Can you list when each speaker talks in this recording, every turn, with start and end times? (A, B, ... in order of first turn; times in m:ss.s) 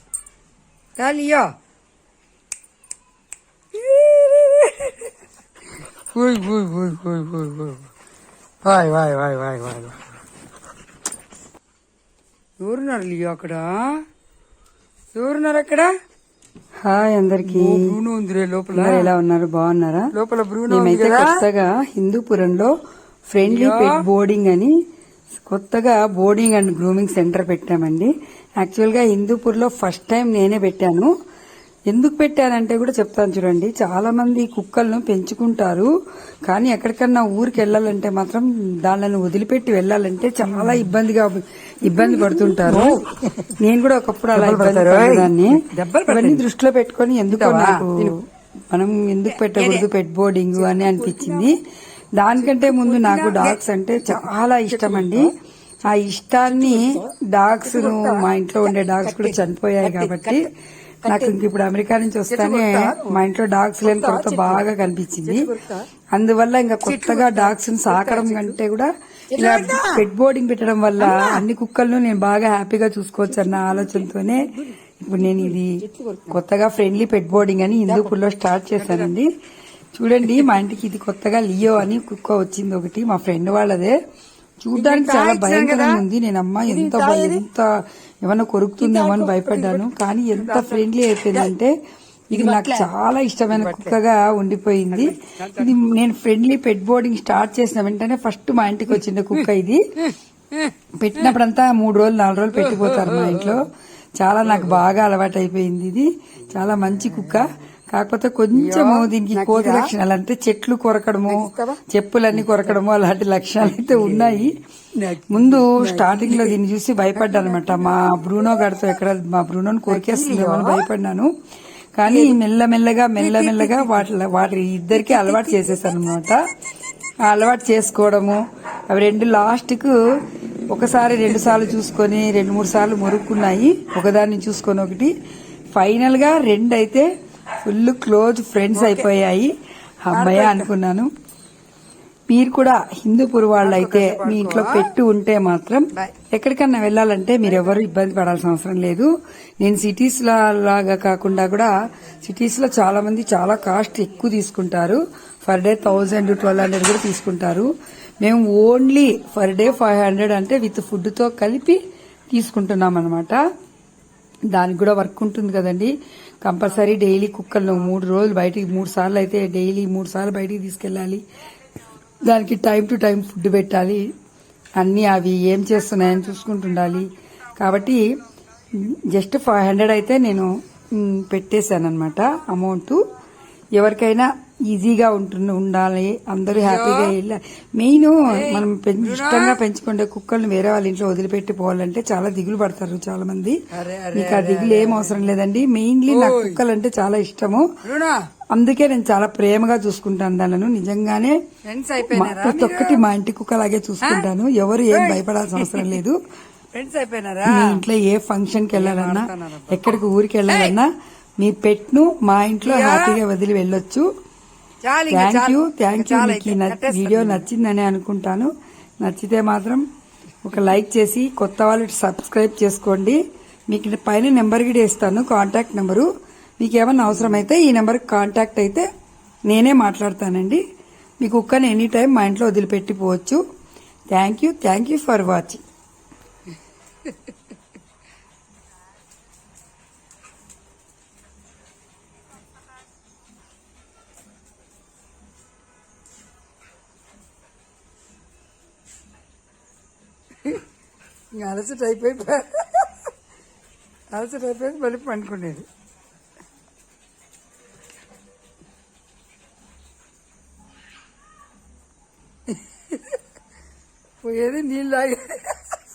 0:01.0-0:01.5 A
0:03.8-0:05.0 A
0:06.1-0:07.9 A
0:08.6-0:10.0 A
0:12.6-0:14.0 A
0:15.1-0:15.9 A
0:16.8-0:17.9 B
0:17.4-0:19.1 A
0:18.7-0:20.1 B
0:20.1-0:21.4 A
0:20.7-0:22.8 B
0:23.3-0:24.8 B
0:23.4-0:24.0 A
0:25.4-0:31.1 B
0:31.9-0:35.9 B
0:36.5-0:43.0 B
0:40.4-0:40.9 A
0:42.0-0:43.6 A
0:43.6-0:51.6 B
0:44.3-0:46.4 A
0:47.3-0:48.2 A
0:49.3-0:49.9 A
0:50.5-0:51.6 A
0:52.2-0:55.3 B
0:52.3-0:55.3 A
0:55.8-1:00.5 B
0:56.4-1:00.5 A
1:01.0-1:01.4 A
1:01.0-1:05.5 B
1:02.3-1:03.3 A
1:03.8-1:04.7 A
1:05.2-1:05.9 A
1:06.1-1:19.3 B
1:06.8-1:08.6 A
1:09.3-1:10.0 A
1:11.0-1:11.4 A
1:13.3-1:16.4 A
1:17.9-1:18.2 A
1:18.8-1:19.1 A
1:20.0-1:24.0 B
1:24.6-1:31.7 B
1:24.7-1:26.0 A
1:26.7-1:27.4 A
1:28.8-1:29.8 A
1:30.4-1:31.5 A
1:32.3-1:39.8 B
1:32.3-1:32.9 A
1:33.5-1:34.0 A
1:34.9-1:35.8 A
1:40.1-1:41.3 A
1:41.0-1:54.6 B
1:42.5-1:43.6 A
1:44.4-1:44.8 A
1:46.9-1:47.5 A
1:48.5-1:49.9 A
1:51.3-1:51.8 A
1:52.3-1:52.8 A
1:53.6-1:56.6 A
1:55.3-2:01.3 B
1:57.1-1:58.0 A
1:59.9-2:00.9 A
2:02.0-2:06.4 B
2:02.1-2:02.4 A
2:03.2-2:04.1 A
2:04.9-2:05.8 A
2:07.2-2:10.0 B
2:10.7-2:15.1 B
2:11.3-2:11.6 A
2:15.7-2:17.1 B
2:17.6-2:19.5 B
2:18.7-2:19.1 A
2:20.0-2:21.1 B
2:20.1-2:20.7 A
2:22.3-2:29.1 B
2:23.6-2:24.9 A
2:27.4-2:27.8 A
2:29.6-2:31.7 B
2:32.2-2:37.7 B
2:38.2-2:41.8 B
2:42.3-2:43.4 B
2:44.5-2:51.2 B
2:52.2-2:54.1 B
2:54.8-2:58.0 B
2:58.7-3:03.0 B
3:03.7-3:13.6 B
3:06.5-3:07.1 A
3:08.2-3:09.6 A
3:13.7-3:15.3 A
3:14.1-3:17.8 B
3:16.1-3:16.6 A
3:17.8-3:18.2 A
3:18.5-3:21.5 B
3:21.6-3:23.0 A
3:22.0-3:26.2 B
3:24.9-3:26.0 A
3:26.7-3:27.7 A
3:27.4-3:34.1 B
3:28.7-3:30.8 A
3:32.6-3:33.2 A
3:34.8-3:37.4 A
3:35.1-3:38.5 B
3:39.0-3:39.8 B
3:40.4-3:48.9 B
3:47.1-3:47.4 A
3:49.5-3:50.6 B
3:51.2-3:53.4 B
3:54.1-3:55.6 B
4:11.4-4:12.3 B
4:12.0-4:12.4 A
4:14.1-4:15.6 B
4:24.2-4:25.4 A